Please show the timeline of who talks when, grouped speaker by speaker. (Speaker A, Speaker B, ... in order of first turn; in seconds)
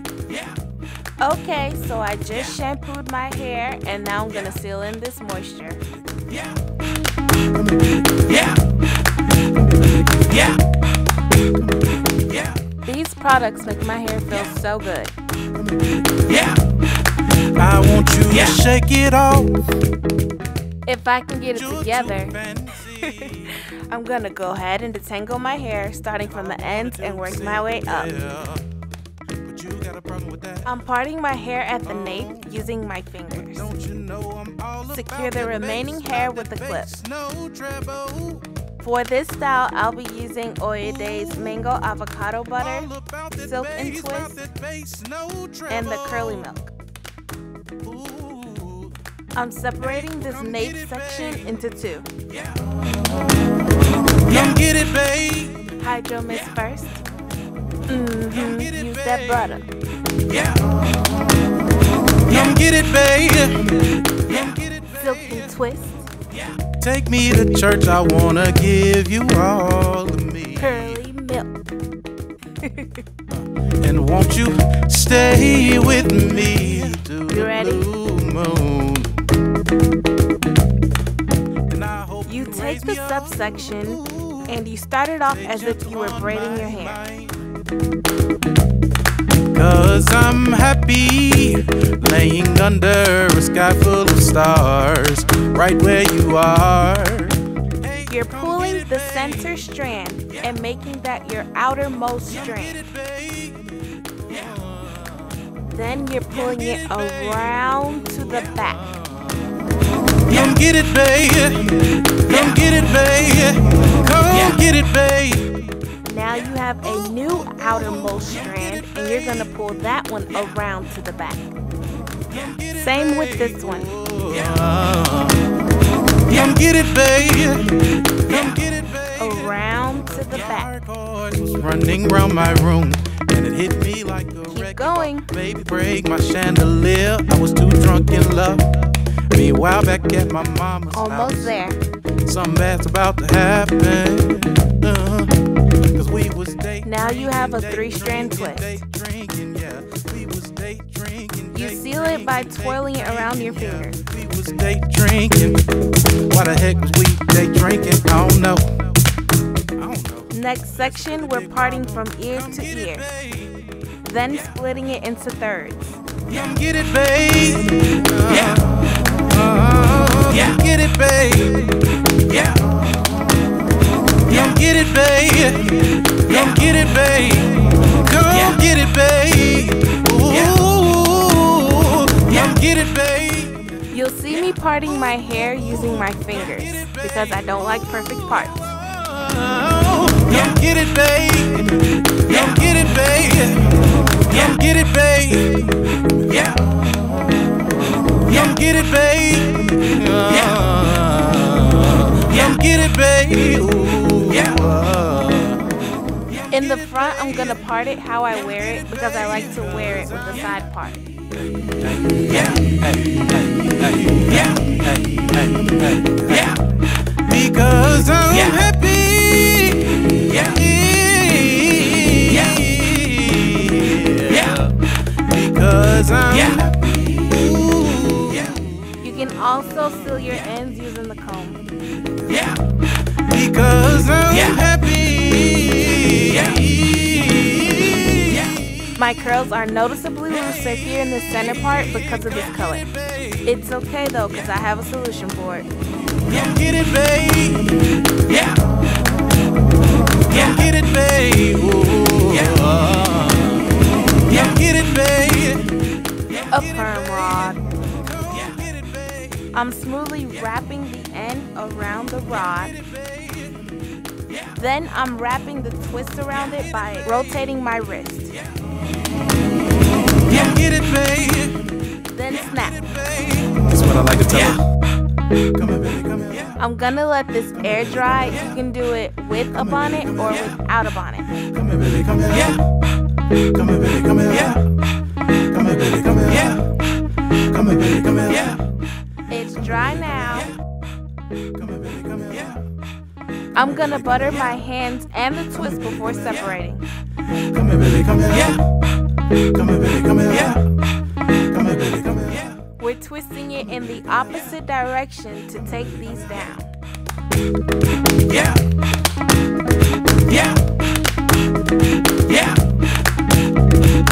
Speaker A: 1.2-5.8, 12.8-15.1, 20.9-28.1, 30.6-33.7, 34.9-36.9, 38.8-42.9, 43.4-44.4, 45.7-46.7, 49.3-52.1, 55.8-57.0, 57.9-59.7, 65.0-66.1, 70.6-71.5, 72.6-73.0, 77.3-77.9, 82.3-87.0, 98.1-102.8, 105.7-108.8, 116.0-121.5, 122.8-123.9, 129.2-130.7, 134.5-135.3, 140.9-141.8, 146.8-148.8, 151.5-154.0, 160.3-163.1, 164.0-166.0, 183.9-188.7, 206.5-211.0, 229.0-231.6, 238.9-242.8, 243.4-245.7, 256.5-257.7, 259.5-262.8, 264.6-268.3, 272.1-272.9, 276.6-281.3, 289.3-290.5, 293.5-296.8, 302.8-306.7
Speaker B: 15.7-16.5, 17.4-19.6, 21.5-23.5, 26.2-28.7, 29.4-30.7, 31.8-32.6, 33.3-38.5, 40.8-41.7, 42.6-46.5, 47.8-49.0, 49.8-51.4, 52.5-52.8, 54.1-55.7, 58.3-59.6, 62.2-65.6, 66.8-71.0, 73.3-79.2, 81.7-84.6, 85.3-87.5, 89.5-99.6, 102.3-105.5, 106.3-109.6, 110.2-115.5, 116.9-119.0, 122.2-125.6, 126.1-138.8, 139.3-141.5, 142.2-158.9, 159.8-163.7, 166.3-171.8, 174.2-183.7, 185.7-195.8, 196.3-196.8, 198.1-205.8, 206.4-207.6, 208.4-210.6, 211.6-216.6, 217.2-228.7, 233.1-238.8, 241.4-243.5, 246.2-247.9, 250.2-255.8, 256.8-259.5, 262.6-263.7, 270.2-271.7, 272.6-274.6, 275.6-276.5, 277.9-278.3, 279.7-280.1, 281.4-282.6, 283.4-284.6, 285.4-286.7, 287.5-288.6, 291.6-292.6, 297.5-298.6, 299.5-300.6, 301.5-302.4